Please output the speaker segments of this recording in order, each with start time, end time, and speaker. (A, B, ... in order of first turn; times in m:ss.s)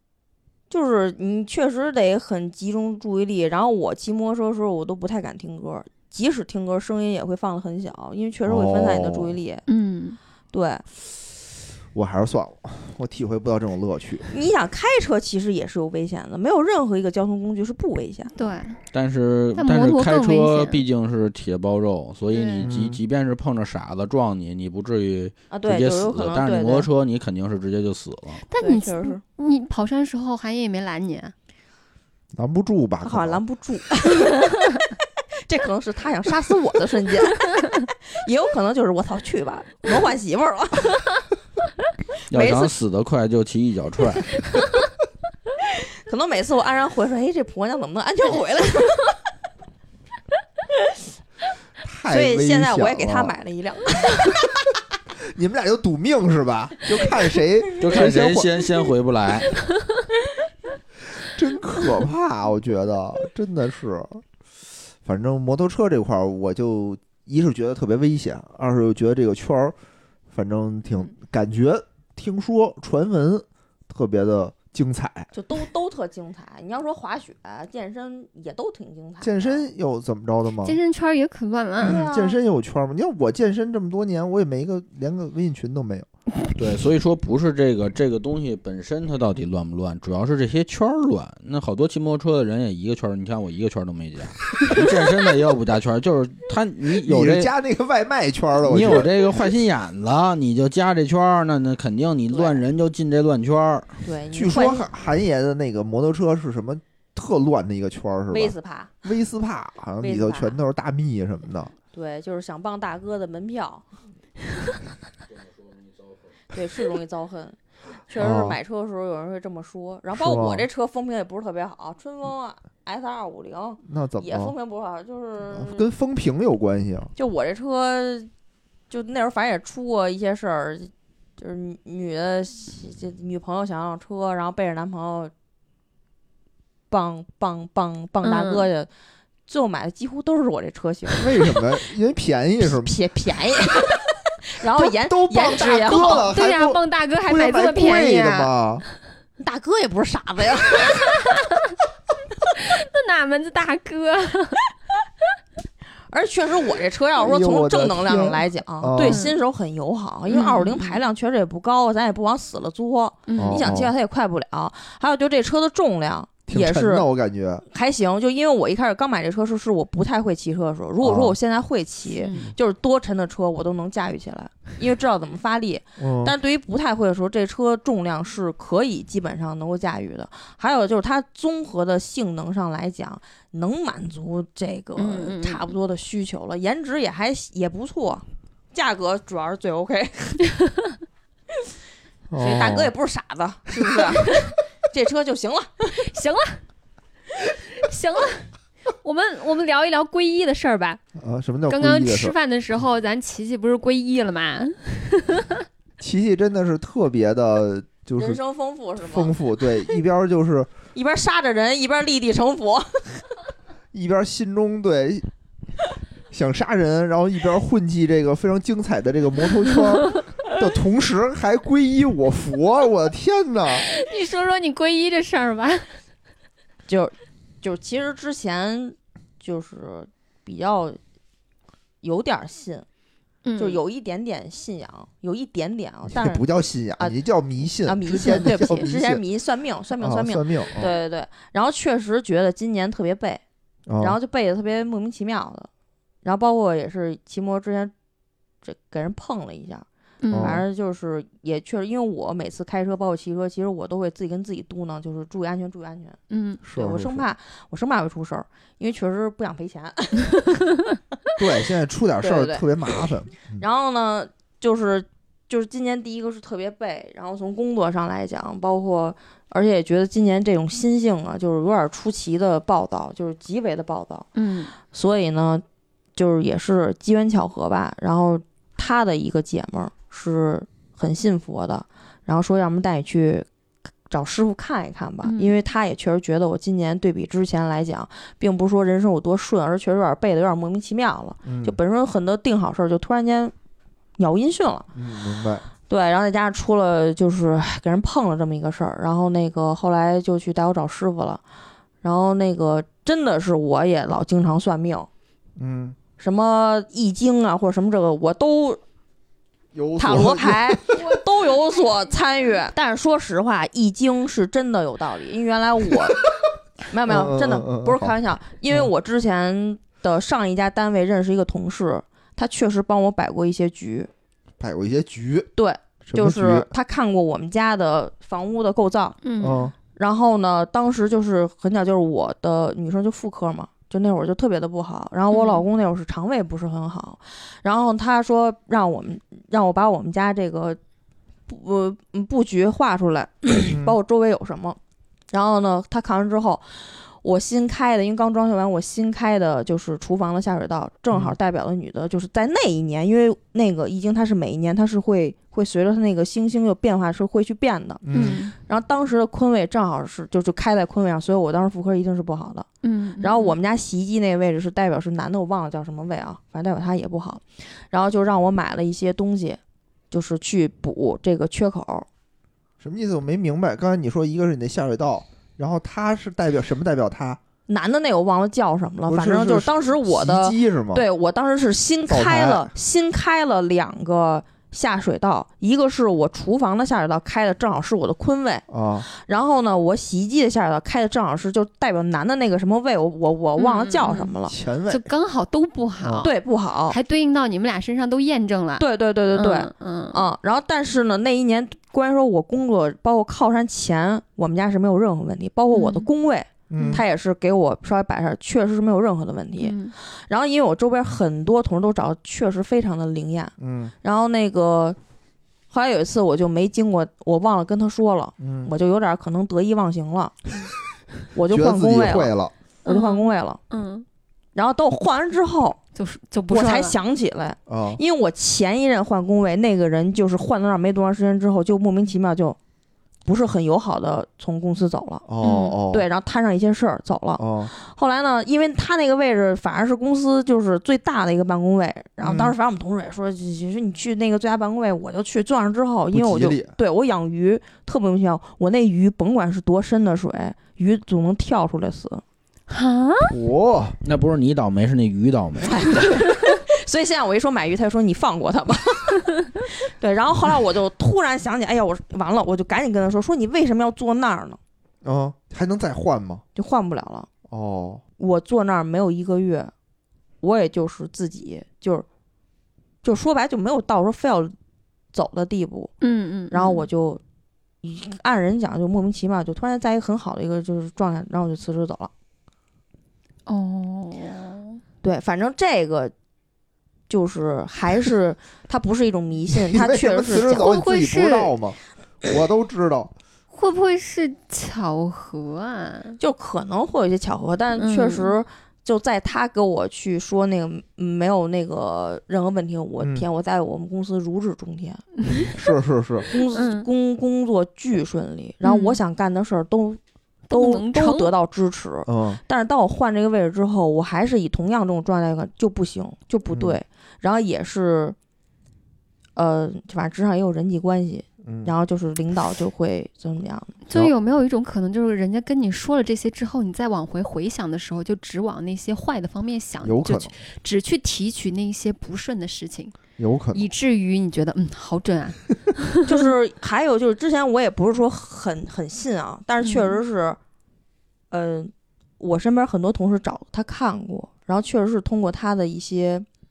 0:00.7-0:09.6 A
0:08.4-0:09.3 B
0:09.7-0:10.2 C
0:10.5-0:10.8 A
0:11.9-0:14.3 B
0:14.3-0:18.3 A
0:18.4-0:18.8 C
0:18.9-0:28.4 D
0:19.6-0:20.8 C
0:22.3-0:22.7 C
0:22.6-0:23.0 B
0:25.5-0:26.9 A
0:28.5-0:31.3 C
0:28.6-0:29.2 A
0:32.4-0:33.4 B
0:33.0-0:34.5 A
0:35.4-0:41.1 A
0:42.3-0:42.7 A
0:42.3-0:44.5 D
0:46.1-0:49.2 A
0:51.8-0:53.3 B
0:52.1-0:54.4 A
0:55.2-0:58.5 B
0:57.8-0:59.5 D
1:01.2-1:04.2 B
1:05.0-1:09.7 B
1:10.3-1:15.3 B
1:15.3-1:19.7 A
1:19.2-1:20.8 B
1:20.6-1:22.0 C
1:21.8-1:26.1 B
1:21.8-1:22.4 A
1:26.5-1:37.5 D
1:36.9-1:39.1 B
1:38.6-1:44.0 D
1:42.3-1:42.6 A
1:44.0-1:44.8 A
1:44.3-1:51.7 B
1:48.3-1:48.9 A
1:50.0-1:50.6 A
1:51.9-1:53.8 A
1:56.5-1:57.6 A
1:58.1-2:05.9 A
1:58.2-1:58.6 B
2:00.1-2:00.7 B
2:03.8-2:04.5 B
2:05.5-2:07.1 B
2:07.2-2:08.3 A
2:08.9-2:15.3 A
2:16.9-2:18.9 A
2:18.2-2:18.6 C
2:19.5-2:21.2 A
2:21.2-2:22.9 B
2:22.6-2:26.2 A
2:24.7-2:28.8 B
2:25.5-2:28.5 C
2:29.4-2:31.2 A
2:31.0-2:31.4 C
2:32.6-2:34.6 C
2:36.1-2:47.1 A
2:37.2-2:39.3 B
2:39.0-2:39.4 C
2:40.3-2:41.0 C
2:43.3-2:43.7 C
2:43.4-2:43.9 B
2:46.5-2:47.6 B
2:47.7-3:10.4 A
2:51.0-2:51.4 B
2:52.2-2:52.5 C
2:56.0-2:56.3 B
3:05.0-3:05.6 C
3:12.3-3:12.9 B
3:12.4-3:16.0 A
3:14.2-3:14.5 C
3:16.0-3:16.6 C
3:17.7-3:21.0 C
3:21.2-3:22.3 B
3:21.7-3:25.6 C
3:26.0-3:28.4 B
3:28.2-3:29.3 A
3:29.0-3:30.7 B
3:30.9-3:33.2 A
3:33.9-3:35.3 B
3:36.3-3:43.8 B
3:43.7-3:45.8 C
3:46.9-3:51.0 A
3:52.0-3:52.8 A
3:53.4-3:53.8 C
3:53.6-3:56.4 A
3:56.1-3:59.2 B
3:57.8-4:03.4 A
4:00.0-4:00.9 B
4:03.9-4:04.2 B
4:04.0-4:05.7 A
4:06.2-4:07.9 A
4:08.6-4:16.2 A
4:10.2-4:10.6 C
4:10.3-4:10.6 B
4:16.3-4:16.6 C
4:16.6-4:17.2 B
4:16.7-4:20.4 A
4:21.4-4:23.6 B
4:22.2-4:22.7 A
4:23.6-4:34.3 A
4:34.4-4:34.7 C
4:34.9-4:35.6 A
4:36.2-4:43.4 A
4:44.1-4:53.5 A
4:45.2-4:45.5 C
4:51.4-4:51.8 B
4:54.2-4:54.9 A
4:54.9-4:55.7 B
4:55.9-5:01.4 A
5:02.0-5:05.1 A
5:05.6-5:06.0 B
5:06.2-5:08.8 A
5:09.7-5:11.0 B
5:10.0-5:16.2 A
5:16.9-5:24.1 A
5:17.0-5:18.1 B
5:24.6-5:25.5 B
5:25.6-5:29.2 A
5:26.1-5:26.7 B
5:29.2-5:29.7 C
5:29.4-5:29.7 B
5:29.9-5:40.8 A
5:35.3-5:35.6 C
5:41.5-5:44.8 A
5:43.7-5:44.0 B
5:45.3-5:58.0 A
5:58.0-5:58.4 B
5:58.1-5:58.5 C
5:58.6-6:02.7 A
6:02.8-6:03.6 C
6:03.2-6:09.6 A
6:10.1-6:12.1 A
6:12.8-6:17.4 B
6:17.7-6:34.5 A
6:19.1-6:21.0 B
6:22.1-6:22.7 B
6:28.7-6:29.0 B
6:33.6-6:34.3 C
6:34.5-6:35.1 B
6:34.9-6:36.4 C
6:36.0-6:36.3 B
6:36.2-6:37.0 A
6:36.9-6:40.3 C
6:38.8-6:55.0 A
6:45.7-6:46.1 C
6:46.7-6:47.0 B
6:46.8-6:47.0 C
6:49.6-6:49.9 C
6:53.6-6:53.9 B
6:55.7-7:00.4 A
6:58.4-6:58.7 B
7:01.3-7:02.3 A
7:01.5-7:02.5 B
7:02.8-7:04.0 C
7:02.8-7:03.6 A
7:04.5-7:05.8 A
7:05.9-7:07.0 C
7:06.5-7:12.6 A
7:07.7-7:08.0 B
7:13.2-7:15.2 A
7:15.2-7:16.0 B
7:15.4-7:15.8 C
7:15.9-7:32.2 A
7:17.4-7:17.7 B
7:22.2-7:22.5 B
7:26.1-7:26.7 B
7:32.7-7:33.3 C
7:33.2-7:34.0 B
7:34.0-7:36.1 D
7:35.6-7:44.6 A
7:45.0-7:46.4 B
7:46.5-7:47.3 A
7:47.5-7:48.0 B
7:48.2-7:49.7 A
7:50.4-7:52.0 A
7:53.0-7:54.5 A
7:55.1-7:55.9 A
7:56.0-7:56.9 C
7:56.5-7:57.2 A
7:57.8-8:02.1 A
8:03.5-8:04.8 C
8:05.0-8:06.1 A
8:07.1-8:10.7 A
8:09.5-8:13.1 B
8:10.5-8:11.5 C
8:13.5-8:16.2 C
8:16.2-8:25.0 A
8:17.8-8:18.3 C
8:23.0-8:23.2 B
8:25.2-8:25.5 C
8:25.5-8:26.3 B
8:26.3-8:30.0 A
8:26.5-8:26.9 C
8:28.6-8:29.0 C
8:30.5-8:31.3 C
8:30.5-8:38.2 A
8:32.1-8:32.4 B
8:36.5-8:36.8 B
8:39.4-8:43.7 A
8:41.4-8:41.7 B
8:43.8-8:52.9 C
8:49.8-8:50.3 B
8:53.2-8:53.6 B
8:53.5-8:56.3 C
8:56.0-9:00.4 A
8:59.6-9:00.0 C
9:01.3-9:06.2 A